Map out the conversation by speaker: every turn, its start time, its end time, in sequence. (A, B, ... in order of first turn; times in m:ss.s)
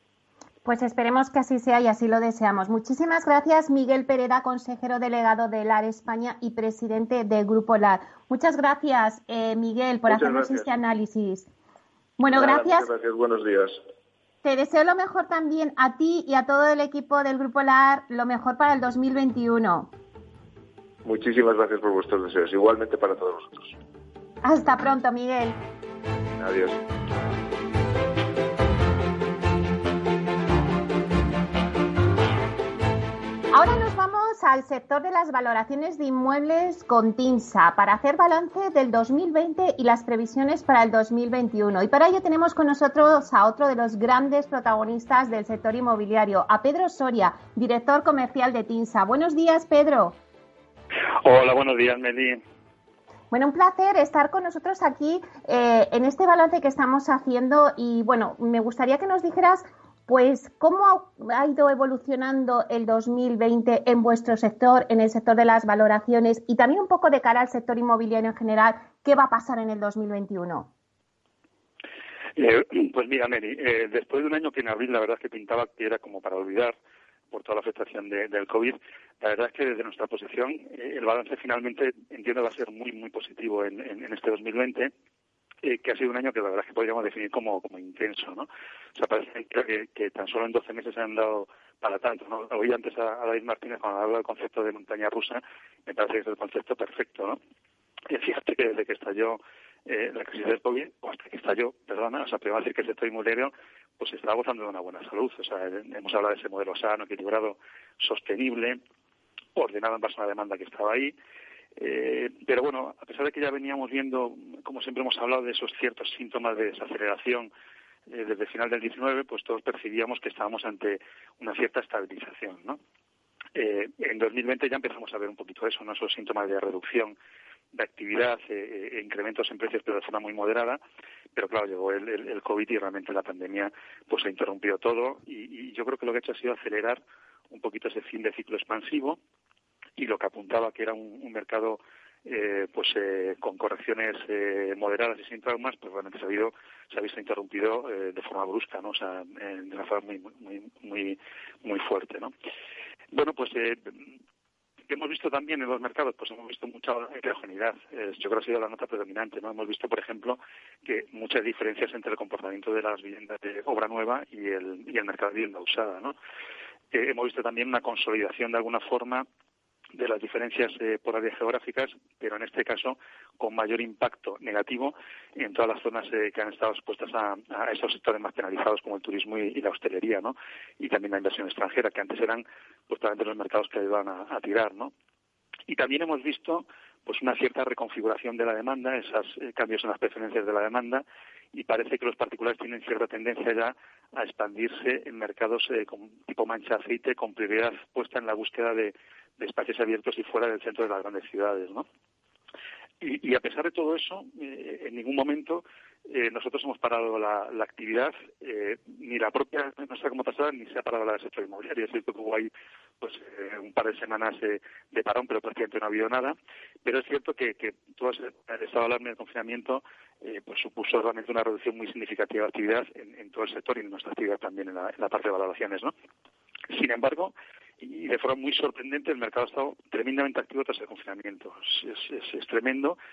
0:00.6-0:11.5 A
0:10.1-0:10.7 B
0:12.2-0:12.9 A
0:12.3-0:13.8 B
0:14.4-0:19.9 A
0:21.0-0:23.8 B
0:24.4-0:25.6 A
0:26.4-0:26.8 B
0:33.5-0:50.2 A
0:51.2-0:52.4 C
0:53.3-1:10.7 A
1:12.4-1:16.7 C
1:17.3-1:24.9 C
1:25.6-1:37.4 C
1:38.1-1:48.8 C
1:49.6-1:51.1 C
1:51.8-1:57.5 C
1:58.1-2:02.8 C
2:03.5-2:07.2 C
2:07.7-2:10.8 C
2:11.3-2:19.2 C
2:20.0-2:32.3 C
2:33.1-2:34.0 C
2:34.9-2:46.1 C
2:46.9-2:49.2 C
2:49.9-3:04.9 C
3:05.7-3:21.8 C
3:23.0-3:32.5 C
3:33.0-3:45.9 C
3:46.7-3:53.0 C